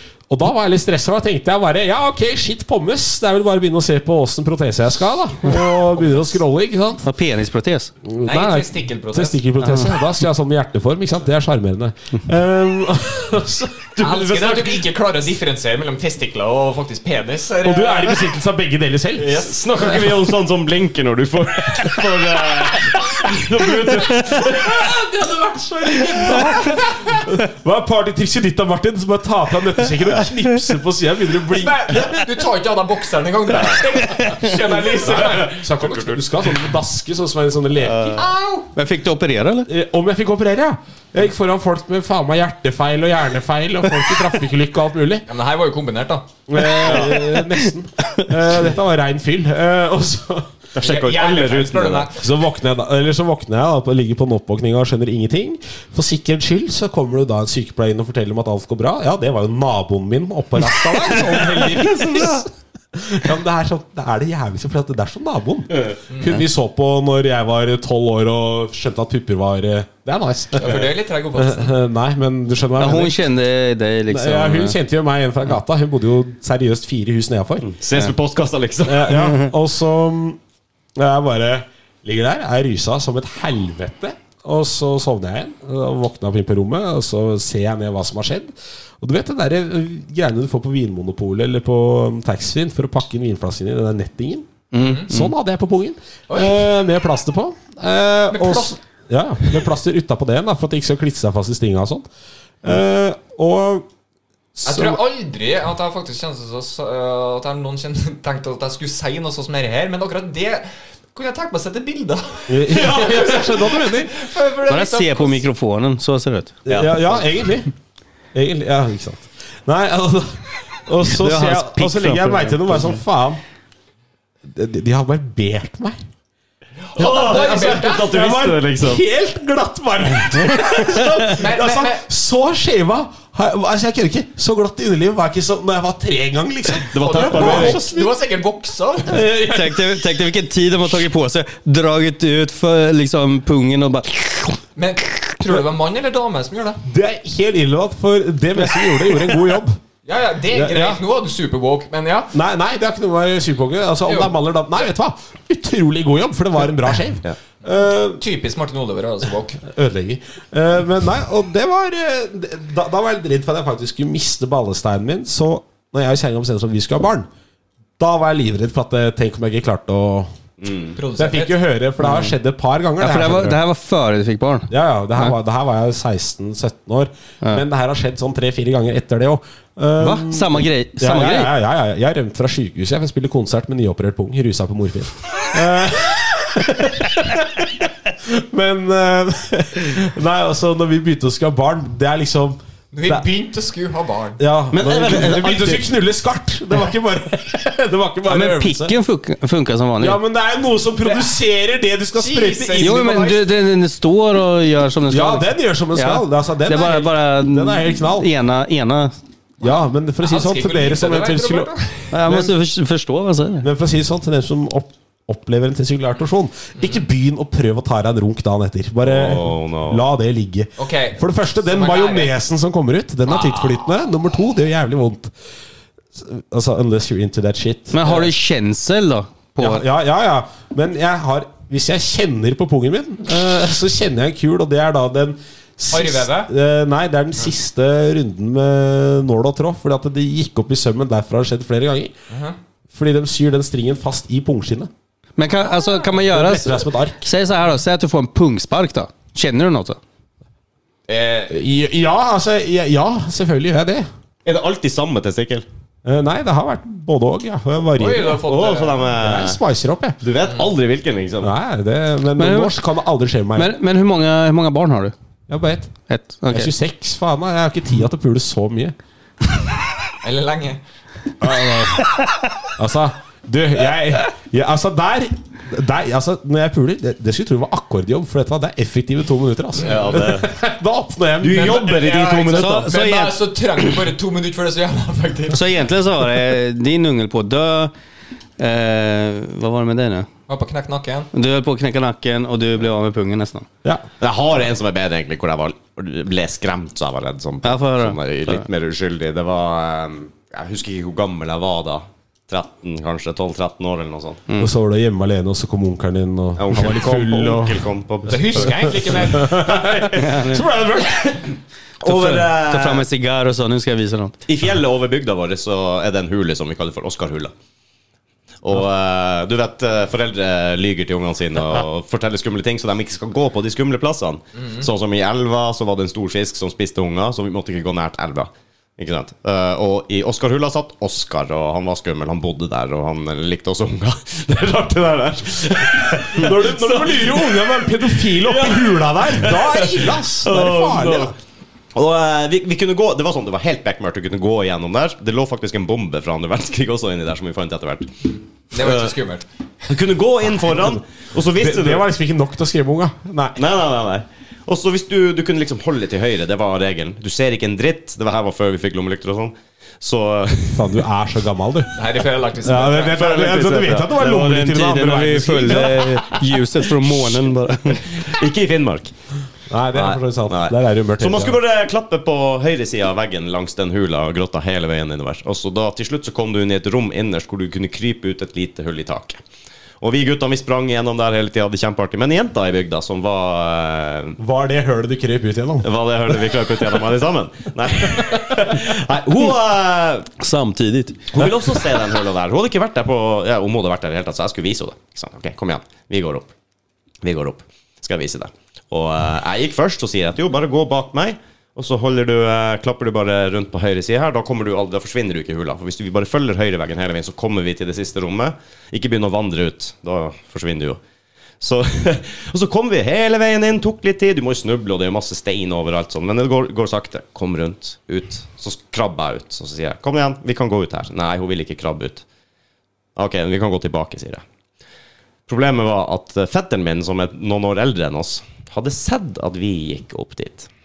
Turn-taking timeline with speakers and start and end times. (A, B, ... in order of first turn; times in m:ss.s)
0:00.3-0:07.0 A
0:06.0-0:06.3 B
0:07.0-0:07.9 C
0:08.0-0:14.0 A
0:08.2-0:09.4 B
0:14.0-0:14.8 D
0:14.0-0:18.3 B
0:17.6-0:19.5 A
0:19.2-0:20.1 B
0:19.3-0:24.8 D
0:24.3-0:32.2 A
0:26.0-0:26.8 B
0:31.5-0:35.6 B
0:33.5-0:33.8 D
0:34.4-0:38.2 A
0:35.0-0:36.2 D
0:37.8-0:38.2 D
0:38.2-0:38.7 B
0:38.7-0:39.7 C
0:39.7-0:45.2 A
0:45.3-0:46.3 B
0:46.5-0:50.5 A
0:46.8-0:47.2 D
0:50.7-0:52.1 D
0:50.8-0:52.2 B
0:52.2-1:13.2 A
1:06.1-1:06.4 B
1:10.6-1:11.7 B
1:12.8-1:14.8 C
1:14.1-1:17.7 A
1:17.6-1:19.4 D
1:18.8-1:20.4 A
1:21.0-1:34.5 A
1:34.7-1:35.3 C
1:34.8-1:35.1 B
1:35.0-1:42.1 A
1:36.3-1:36.6 B
1:38.3-1:38.7 B
1:42.6-1:43.9 A
1:44.5-1:45.0 A
1:44.6-1:55.4 B
1:52.5-1:54.1 A
1:54.7-1:56.6 C
1:56.6-1:57.7 A
1:56.7-1:57.1 D
1:58.3-2:03.4 A
2:01.0-2:03.0 C
2:04.4-2:06.0 A
2:06.9-2:08.2 B
2:07.0-2:09.0 D
2:07.0-2:18.1 A
2:10.8-2:12.0 B
2:16.9-2:17.8 D
2:17.0-2:19.2 B
2:19.0-2:20.0 A
2:19.4-2:24.6 C
2:24.8-2:26.8 B
2:26.8-2:29.8 A
2:30.0-2:32.3 B
2:30.5-2:31.0 A
2:32.3-2:38.2 A
2:34.0-2:34.3 B
2:38.2-2:39.6 B
2:39.6-2:47.3 A
2:48.0-2:50.3 A
2:50.6-2:51.0 D
2:51.0-2:51.6 B
2:51.2-2:53.6 A
2:52.0-2:52.3 C
2:53.0-2:55.3 C
2:54.7-3:13.3 A
3:00.0-3:01.5 C
3:12.9-3:14.4 B
3:14.4-3:18.9 A
3:14.7-3:15.8 D
3:18.3-3:20.2 C
3:20.0-3:23.0 A
3:21.0-3:21.3 B
3:22.1-3:23.4 B
3:22.8-3:29.1 C
3:25.1-3:28.3 A
3:29.6-3:31.7 A
3:30.2-3:32.1 B
3:32.1-3:33.7 C
3:32.2-3:32.5 A
3:33.6-3:45.3 A
3:39.0-3:40.0 D
3:40.8-3:42.3 B
3:43.3-3:43.8 B
3:46.1-3:48.2 A
3:47.9-3:49.8 C
3:49.6-4:02.1 A
3:55.9-3:56.5 B
4:02.3-4:02.6 B
4:02.9-4:04.9 A
4:05.4-4:10.0 C
4:06.2-4:07.2 A
4:11.1-4:11.6 B
4:11.5-4:14.1 A
4:14.4-4:15.6 D
4:16.0-4:18.4 A
4:18.0-4:19.1 B
4:18.3-4:19.6 D
4:19.2-4:20.2 A
4:20.2-4:21.5 D
4:21.4-4:23.7 A
4:22.4-4:22.7 C
4:23.6-4:25.1 C
4:25.5-4:25.9 A
4:26.1-4:26.7 C
4:26.5-4:28.9 A
4:30.2-4:30.8 B
4:31.4-4:32.0 A
4:32.8-4:41.8 A
4:39.8-4:40.2 B
4:39.8-4:40.5 D
4:41.4-4:42.9 D
4:41.5-4:45.7 B
4:42.5-4:43.4 C
4:45.5-4:47.9 C
4:48.6-4:50.3 C
4:50.5-4:51.3 B
4:51.3-4:53.6 C
4:54.2-5:04.4 D
4:57.6-4:58.6 C
5:04.6-5:07.9 A
5:06.6-5:09.1 D
5:08.3-5:09.7 B
5:08.6-5:11.5 A
5:09.9-5:10.3 D
5:10.2-5:10.6 C
5:12.0-5:13.1 D
5:12.0-5:14.4 C
5:14.5-5:17.5 D
5:18.6-5:41.4 D
5:36.3-5:41.3 A
5:41.9-5:48.1 D
5:48.7-5:49.4 B
5:48.8-5:49.1 D
5:49.9-5:52.0 D
5:51.6-5:53.6 A
5:53.6-6:01.0 D
6:00.7-6:02.0 A
6:02.0-6:03.7 B
6:02.6-6:06.2 A
6:03.1-6:04.2 D
6:04.2-6:08.2 C
6:05.9-6:06.3 D
6:07.2-6:09.1 D
6:09.7-6:11.6 A
6:09.9-6:19.4 D
6:20.0-6:24.4 D
6:24.4-6:26.5 A
6:25.8-6:30.3 D
6:28.2-6:28.6 A
6:30.4-6:31.3 C
6:31.3-6:36.5 D
6:37.2-6:51.0 D
6:51.6-7:02.2 D
7:03.2-7:04.4 D
7:05.5-7:10.7 D